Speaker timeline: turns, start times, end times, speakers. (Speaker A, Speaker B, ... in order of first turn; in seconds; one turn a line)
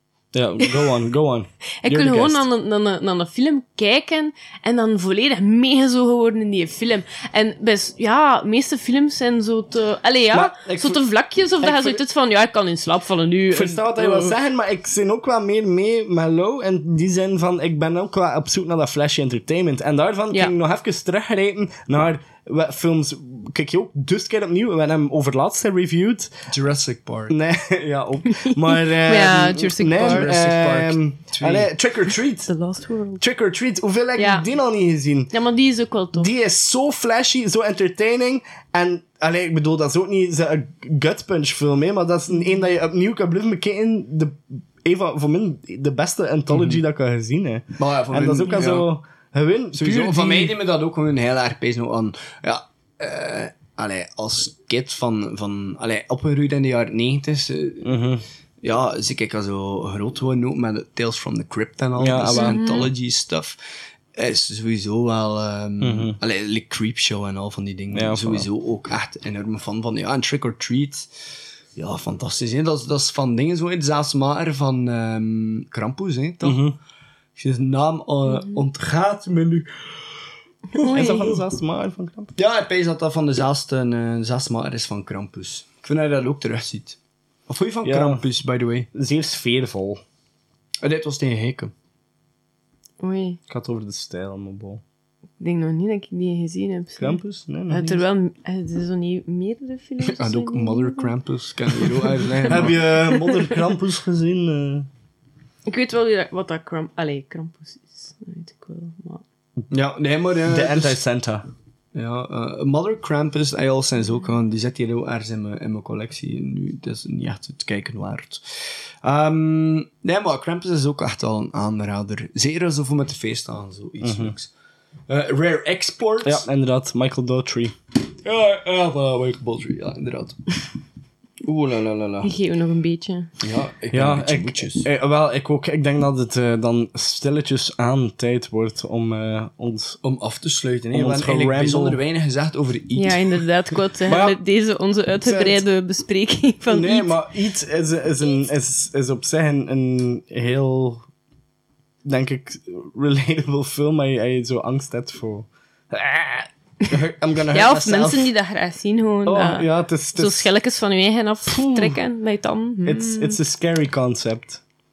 Speaker A: 0.3-2.5
Speaker B: 1.8-14.4
Speaker A: 10.3-11.0
Speaker A: 11.6-12.0
Speaker A: 13.5-26.3
Speaker C: 26.5-27.4
Speaker A: 27.3-32.6
Speaker B: 28.4-30.3
Speaker C: 30.0-31.7
Speaker B: 32.5-33.2
Speaker A: 33.2-35.3
Speaker B: 34.2-34.5
Speaker B: 35.3-36.3
Speaker A: 36.1-50.5
Speaker C: 46.5-46.8
Speaker C: 47.8-48.9
Speaker C: 49.7-58.0
Speaker A: 57.8-58.2
Speaker C: 58.6-63.6
Speaker A: 62.0-62.6
Speaker B: 62.4-62.9
Speaker C: 64.2-71.1
Speaker A: 65.8-66.2
Speaker A: 67.9-68.5
Speaker C: 71.8-76.7
Speaker A: 76.4-76.8
Speaker C: 77.4-79.7
Speaker B: 80.7-81.3
Speaker A: 80.8-82.3
Speaker C: 82.4-87.0
Speaker C: 87.5-88.9
Speaker A: 87.8-88.2
Speaker A: 88.9-90.0
Speaker C: 90.8-91.7
Speaker B: 93.0-93.4
Speaker A: 93.5-94.8
Speaker B: 95.4-101.1
Speaker A: 97.0-98.0
Speaker C: 100.1-102.8
Speaker B: 102.0-103.6
Speaker A: 102.5-104.9
Speaker B: 105.7-109.2
Speaker C: 109.7-111.0
Speaker A: 110.5-111.5
Speaker C: 111.9-118.4
Speaker C: 119.0-124.5
Speaker A: 124.0-124.3
Speaker C: 125.1-126.5
Speaker A: 126.2-127.8
Speaker C: 128.2-130.6
Speaker C: 131.4-132.3
Speaker B: 132.2-133.3
Speaker C: 133.4-134.9
Speaker A: 133.9-140.0
Speaker C: 140.0-143.5
Speaker A: 140.9-142.0
Speaker B: 143.0-147.1
Speaker A: 144.1-144.4
Speaker A: 145.2-145.7
Speaker A: 146.7-151.1
Speaker A: 152.0-158.3
Speaker B: 157.5-163.4
Speaker A: 159.3-160.5
Speaker A: 161.5-162.0
Speaker A: 162.8-164.6